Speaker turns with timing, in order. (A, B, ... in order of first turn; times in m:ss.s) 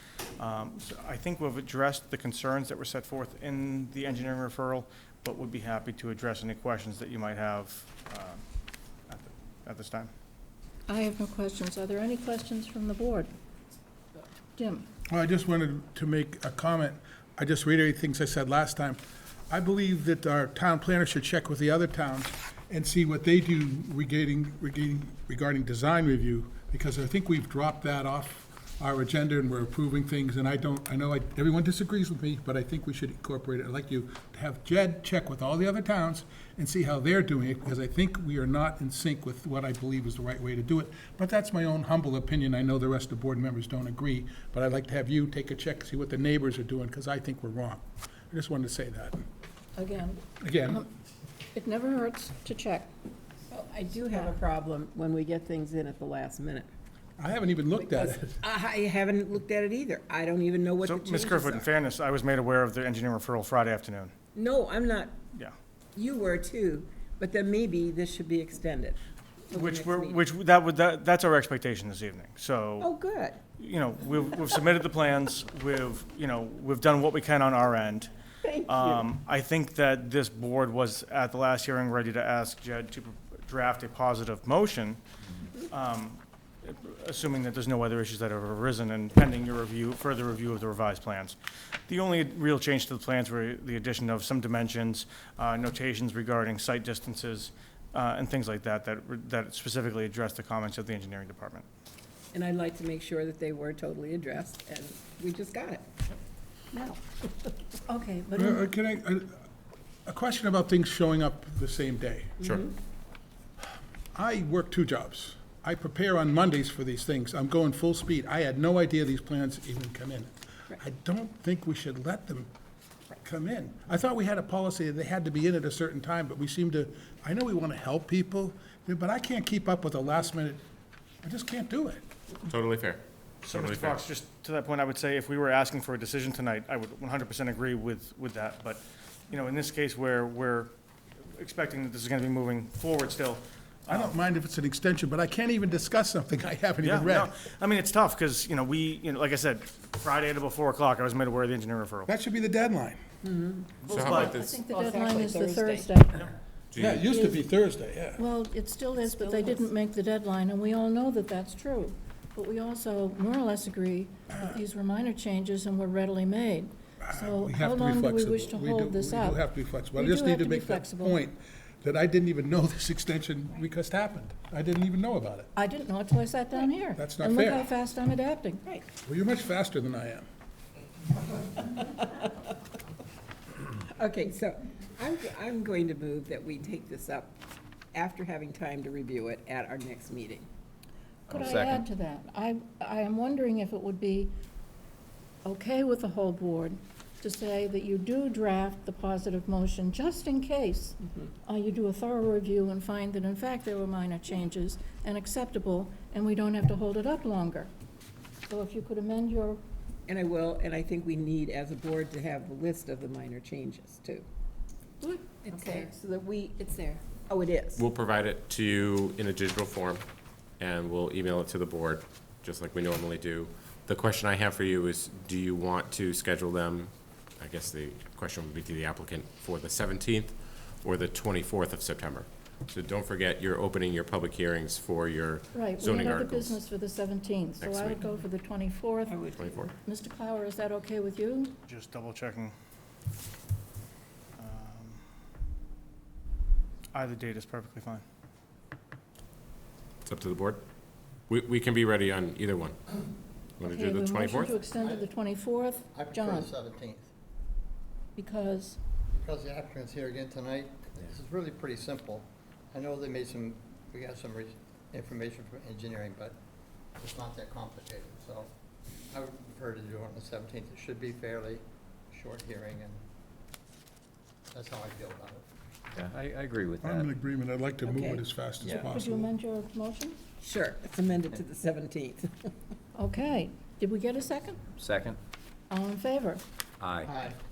0:00.4-0:08.4 A
0:09.1-0:10.1 A
0:10.9-0:13.3 B
0:14.6-0:14.9 B
0:15.1-0:49.2 C
0:49.8-0:50.8 B
0:50.4-0:50.8 C
0:51.5-0:52.9 B
0:53.5-0:56.7 D
0:57.2-0:58.4 C
0:57.8-1:01.7 D
1:00.8-1:04.1 A
1:04.3-1:05.2 D
1:06.0-1:09.0 D
1:09.5-1:10.2 D
1:09.5-1:12.9 A
1:12.8-1:13.4 D
1:13.6-1:18.1 A
1:18.4-1:19.0 D
1:18.7-1:25.0 A
1:25.7-1:31.4 A
1:31.9-1:41.6 A
1:42.3-1:45.9 D
1:46.7-1:47.5 D
1:47.9-1:48.6 B
1:48.4-1:49.4 C
1:50.0-1:52.3 C
1:52.4-1:52.7 D
1:54.1-2:02.5 C
2:03.2-2:10.6 C
2:11.2-2:12.0 C
2:12.5-2:14.0 E
2:13.4-2:20.7 A
2:21.3-2:24.1 A
2:23.9-2:27.3 C
2:26.8-2:32.1 A
2:32.1-2:33.0 C
2:33.2-2:36.0 D
2:33.8-2:34.6 E
2:33.8-2:34.3 A
2:34.4-2:36.3 B
2:36.7-2:37.1 E
2:36.8-2:38.2 C
2:37.1-2:37.4 B
2:38.2-2:51.2 B
2:39.0-2:39.6 D
2:47.0-2:55.5 C
2:55.5-2:58.6 B
2:57.0-2:57.7 C
2:59.0-3:00.2 C
3:03.9-3:07.3 D
3:07.9-3:10.5 D
3:11.3-3:11.9 F
3:11.3-3:14.3 B
3:15.4-3:27.7 B
3:28.4-3:29.6 B
3:30.1-3:34.2 D
3:35.0-3:35.9 B
3:35.4-3:37.8 D
3:37.8-3:40.0 E
3:40.6-3:56.6 E
3:55.5-3:59.3 B
3:57.6-3:58.0 E
3:59.1-3:59.7 D
3:59.3-3:59.7 E
3:59.8-4:01.5 B
4:01.7-4:02.5 A
4:04.4-4:05.0 A
4:06.9-4:08.0 A
4:10.0-4:10.6 E
4:11.3-4:12.8 E
4:13.6-4:14.6 E
4:13.6-4:16.5 B
4:14.7-4:15.1 G
4:15.9-4:17.1 G
4:18.2-4:18.8 B
4:19.1-4:26.4 G
4:27.0-4:28.5 G
4:29.1-4:33.0 G
4:34.5-4:35.4 G
4:35.9-4:37.1 F
4:36.8-4:39.3 C
4:37.8-4:38.2 D
4:38.6-4:38.9 F
4:38.9-4:40.2 B
4:40.4-4:42.3 D
4:43.0-4:44.6 B
4:44.8-4:45.2 F
4:45.7-4:46.4 B
4:46.8-4:47.1 F
4:47.0-4:47.4 G